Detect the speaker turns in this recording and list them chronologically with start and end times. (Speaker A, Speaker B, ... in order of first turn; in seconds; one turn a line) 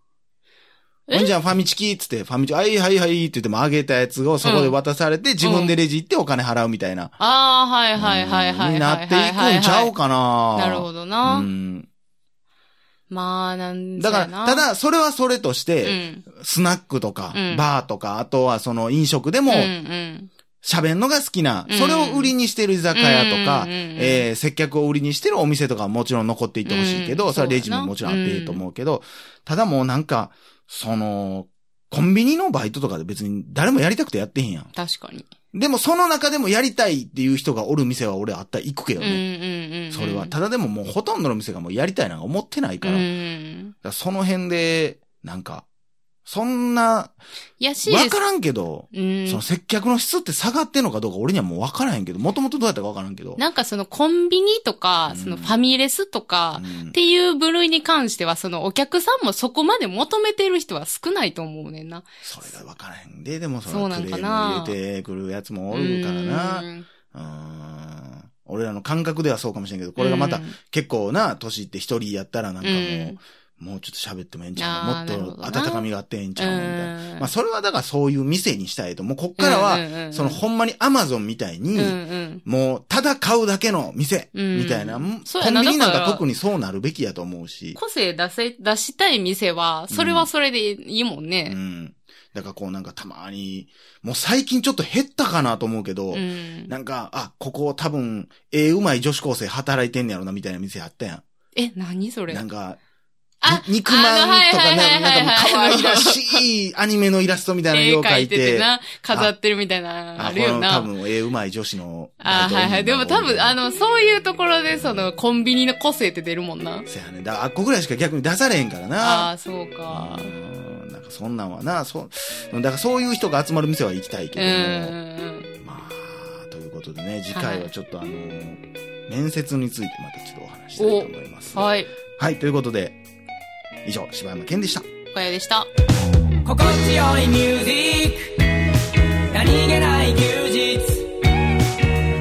Speaker A: 1.1-7.2
Speaker B: 4.4-4.8
Speaker B: 5.4-5.8
Speaker B: 7.2-9.9
Speaker A: 8.0-11.9
Speaker B: 10.6-11.5
Speaker B: 13.1-14.7
Speaker A: 14.0-19.7
Speaker B: 15.8-16.2
Speaker B: 17.3-17.6
Speaker B: 19.5-20.3
Speaker A: 20.6-34.7
Speaker B: 21.7-22.3
Speaker B: 22.9-24.3
Speaker B: 26.7-28.6
Speaker B: 34.7-35.3
Speaker A: 35.5-39.2
Speaker B: 39.0-40.3
Speaker A: 39.9-43.0
Speaker B: 42.8-43.7
Speaker A: 43.8-45.7
Speaker A: 46.3-47.1
Speaker B: 47.6-48.2
Speaker A: 47.8-53.4
Speaker B: 48.9-49.4
Speaker B: 53.4-62.1
Speaker A: 55.1-55.5
Speaker A: 56.6-57.0
Speaker A: 62.2-87.8
Speaker B: 63.7-64.8
Speaker B: 65.7-66.9
Speaker B: 70.0-70.6
Speaker B: 72.6-73.2
Speaker B: 74.6-77.3
Speaker B: 79.4-80.4
Speaker B: 81.8-82.4
Speaker B: 84.3-86.2
Speaker B: 87.8-91.6
Speaker A: 89.9-90.3
Speaker A: 91.5-101.2
Speaker B: 96.1-96.7
Speaker B: 101.5-102.4
Speaker A: 102.3-102.8
Speaker B: 103.4-106.4
Speaker A: 103.4-109.3
Speaker B: 107.7-110.9
Speaker A: 110.2-113.6
Speaker B: 112.2-116.9
Speaker A: 116.9-119.3
Speaker B: 119.0-120.3
Speaker A: 119.9-125.0
Speaker B: 124.4-125.5
Speaker A: 125.6-133.0
Speaker B: 127.3-127.7
Speaker B: 130.8-131.9
Speaker A: 133.8-134.9
Speaker B: 135.1-135.7
Speaker C: 136.4-138.3
Speaker C: 139.3-141.1